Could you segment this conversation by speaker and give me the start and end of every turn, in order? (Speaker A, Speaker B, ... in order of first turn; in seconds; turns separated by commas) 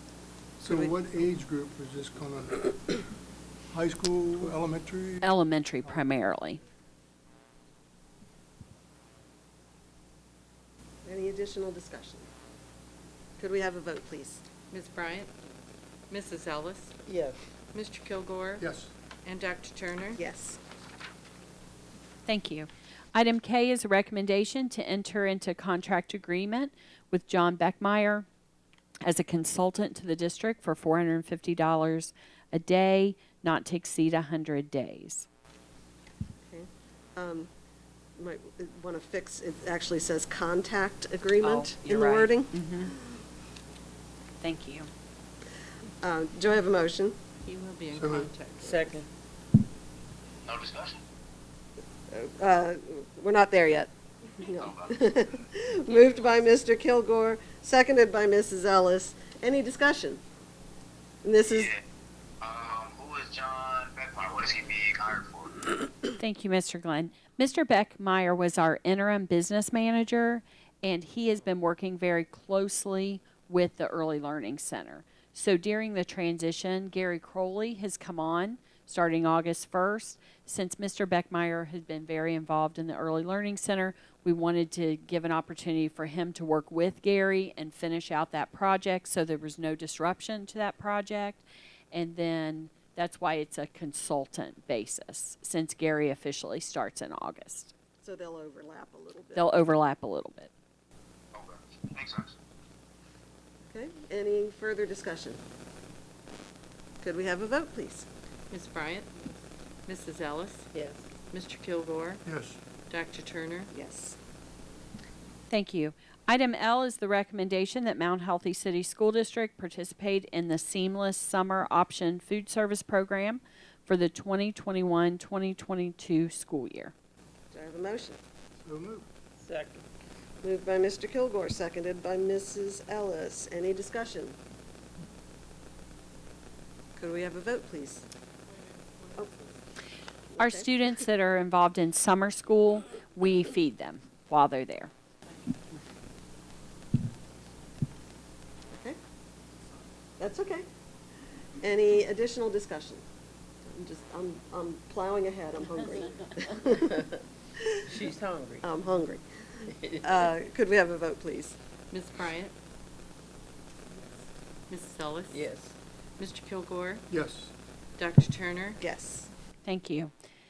Speaker A: 0.6-3.1, Speaker A: 3.7-5.3, Speaker B: 5.2-6.6, Speaker C: 11.0-12.3, Speaker C: 13.4-14.4, Speaker D: 14.7-15.3, Speaker D: 16.1-17.0, Speaker E: 17.1-17.4, Speaker D: 17.7-18.7, Speaker A: 18.6-18.9, Speaker D: 19.2-20.2, Speaker C: 20.2-20.6, Speaker B: 22.3-28.3, Speaker B: 29.0-35.3, Speaker C: 36.5-37.5, Speaker C: 38.2-42.5, Speaker B: 41.4-43.0, Speaker B: 44.4-44.9, Speaker C: 46.0-47.2, Speaker D: 47.4-49.0, Speaker A: 47.9-48.3, Speaker E: 48.6-49.1, Speaker F: 50.5-51.0, Speaker C: 52.1-60.2, Speaker F: 54.5-55.0, Speaker D: 55.9-56.3, Speaker C: 61.2-61.7, Speaker F: 61.4-61.8, Speaker F: 62.4-65.7, Speaker B: 66.2-97.7, Speaker C: 98.0-99.5, Speaker B: 99.4-100.5, Speaker F: 101.3-102.3, Speaker C: 103.7-105.4, Speaker C: 107.0-108.1, Speaker D: 108.5-109.2, Speaker D: 109.9-110.7, Speaker E: 110.7-111.0, Speaker D: 111.3-112.2, Speaker A: 112.2-112.6, Speaker D: 112.9-113.7, Speaker C: 113.7-114.2, Speaker B: 115.5-126.9, Speaker C: 127.5-128.2, Speaker A: 128.6-129.1, Speaker E: 129.4-129.8, Speaker C: 130.4-134.4, Speaker C: 137.0-138.1, Speaker C: 140.3-140.7, Speaker B: 140.4-144.9, Speaker C: 148.7-149.0, Speaker C: 150.2-150.7, Speaker C: 151.6-153.0, Speaker C: 153.7-156.9, Speaker E: 157.9-158.7, Speaker C: 158.6-159.2, Speaker E: 159.7-160.3, Speaker C: 160.0-161.6, Speaker D: 161.9-162.5, Speaker D: 164.7-165.5, Speaker E: 165.3-165.8, Speaker D: 166.2-167.0, Speaker A: 167.1-167.5, Speaker D: 168.0-168.8, Speaker C: 168.8-169.3, Speaker B: 169.7-170.1